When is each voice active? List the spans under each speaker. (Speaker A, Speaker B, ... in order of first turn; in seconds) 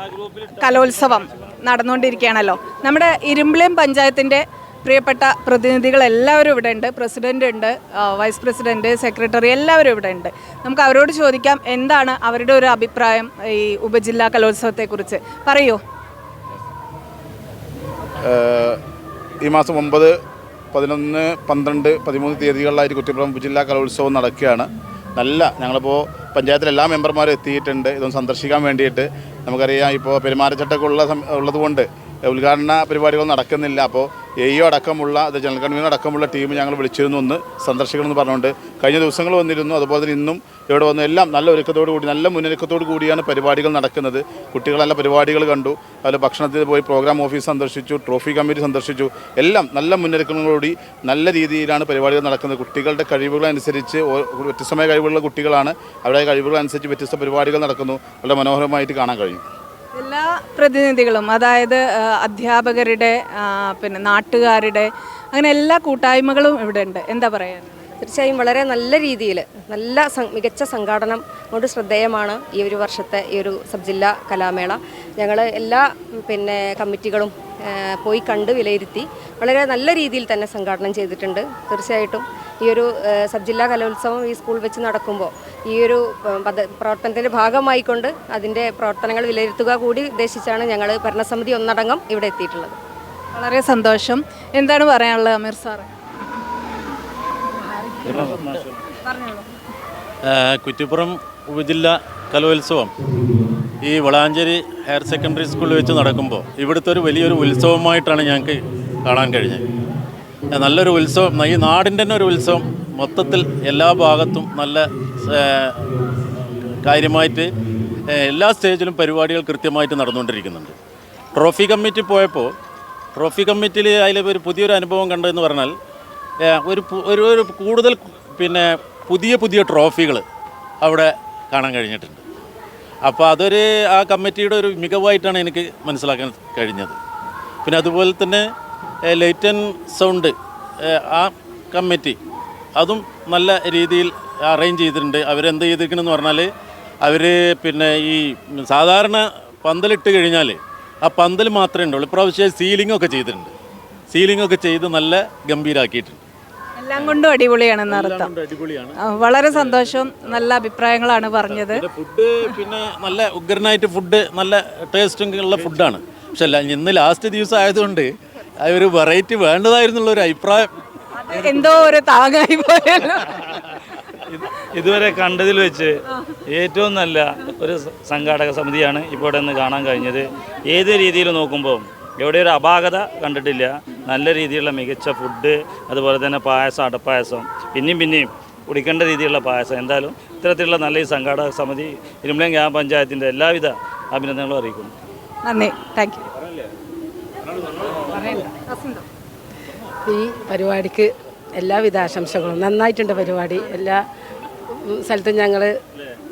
Speaker A: 0.5-15.8, 60.0-67.9, 93.3-95.9, 99.0-99.4, 156.8-158.3, 159.0-161.8, 171.2-173.4, 195.4-196.2, 198.7-199.0
Speaker B: 18.2-18.8, 19.4-20.1, 20.7-59.4
Speaker C: 68.0-92.8
Speaker D: 98.0-98.6, 174.3-175.9, 176.5-194.9
Speaker E: 100.3-102.9, 103.8-109.7, 110.5-117.5, 118.1-120.7, 121.3-122.5, 123.2-125.7, 126.4-130.2, 130.8-132.2, 133.0-137.0, 137.6-138.4, 139.1-142.2, 142.8-146.5, 147.0-153.5, 154.1-156.2, 157.9-159.0, 159.5-159.9, 161.5-170.7, 171.3-171.9
Speaker F: 198.1-198.5, 200.1-204.0, 204.8-205.7